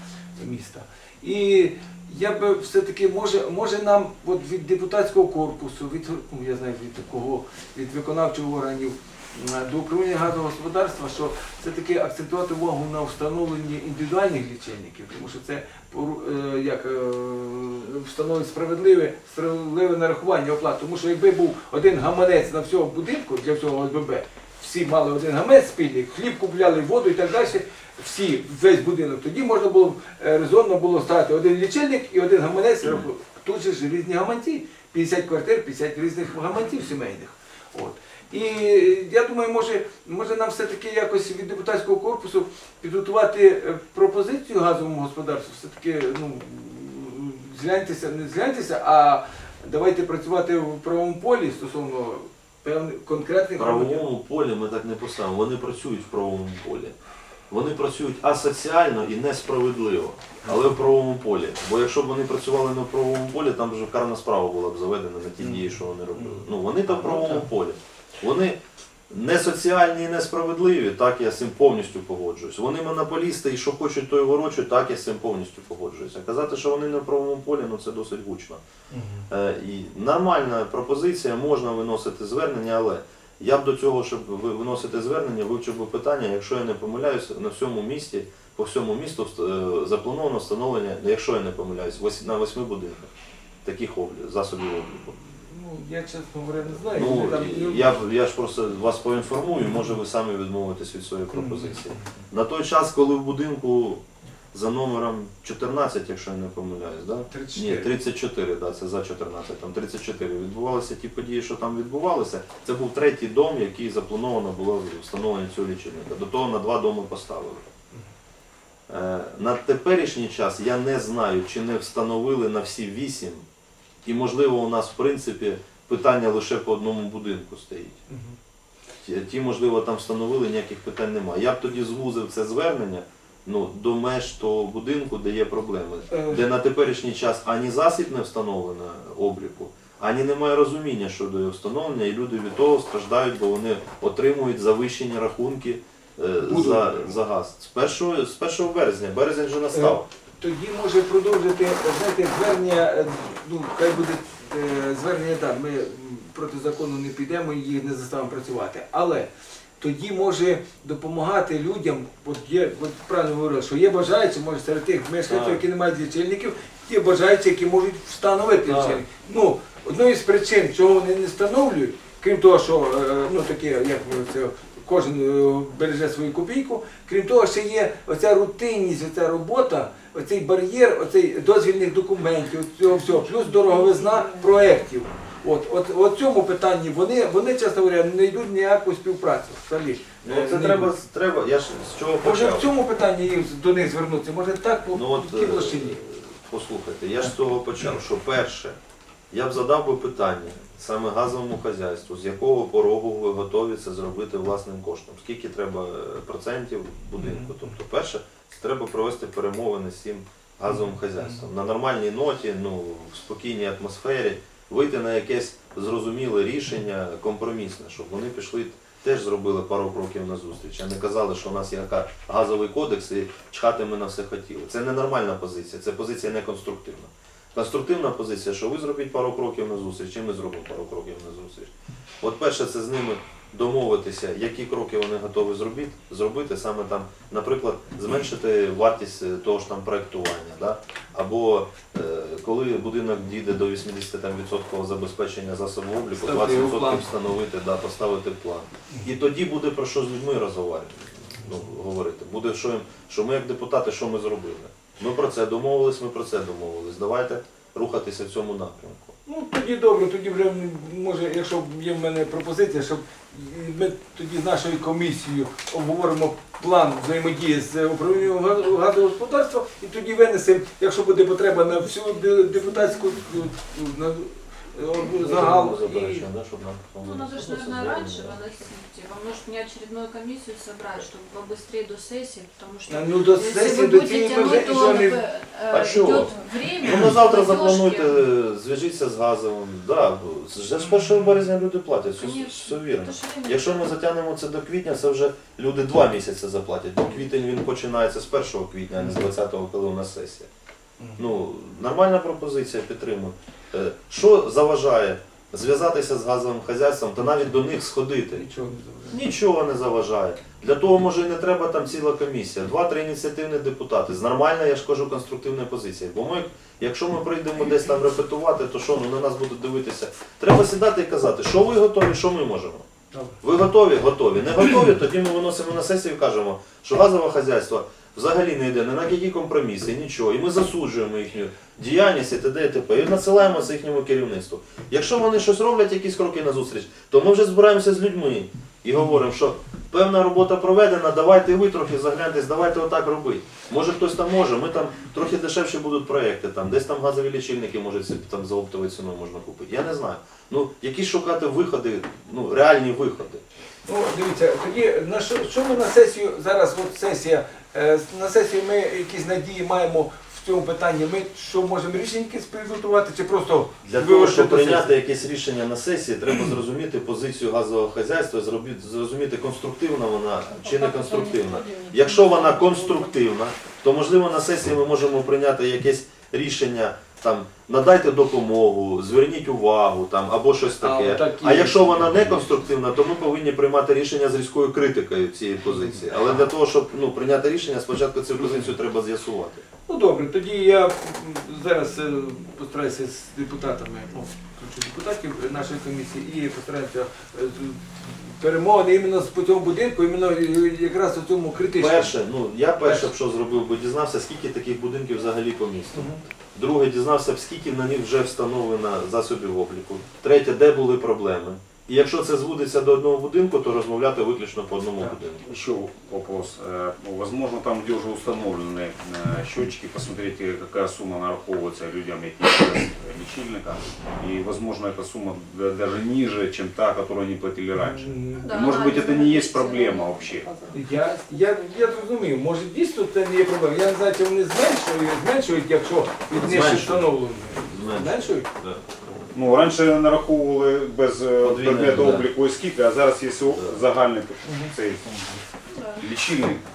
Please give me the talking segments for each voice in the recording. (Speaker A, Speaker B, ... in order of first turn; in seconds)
Speaker A: 0.4-54.0, 65.4-67.5, 78.9-79.3, 95.3-98.0, 101.3-102.2, 107.3-107.9, 128.1-128.3, 136.1-136.4, 146.4-147.1, 149.7-190.9, 192.2-196.0, 207.2-207.7, 210.7-211.5, 246.2-247.1, 259.2-276.3, 282.9-285.2, 290.8-291.3, 299.0-299.2, 301.0-301.3, 308.3-309.2, 323.1-323.4, 353.9-364.9, 380.8-382.5, 385.7-385.9, 388.4-388.6, 389.9-402.1, 402.8-403.1, 405.9-406.2, 427.8-428.5, 430.7-438.5, 444.4-444.7
Speaker B: 53.6-56.9, 57.5-68.6, 69.1-78.6, 79.3-93.1, 93.6-95.2, 96.8-117.6, 118.9-123.5, 124.0-128.0, 129.0-150.1, 165.3-165.6, 168.6-169.0, 190.2-192.7, 194.9-198.8, 199.3-259.1, 275.0-278.4, 285.7-300.5, 301.2-308.4, 309.1-322.8, 323.4-353.4, 363.8-389.6, 401.8-415.4, 436.3-439.1, 441.4-442.3, 443.5-443.8
Speaker C: 277.0-288.2, 292.2-293.9, 371.0-371.6, 428.4-430.6, 445.7-446.0
Speaker D: 415.5-430.5, 439.3-445.4, 446.0-446.6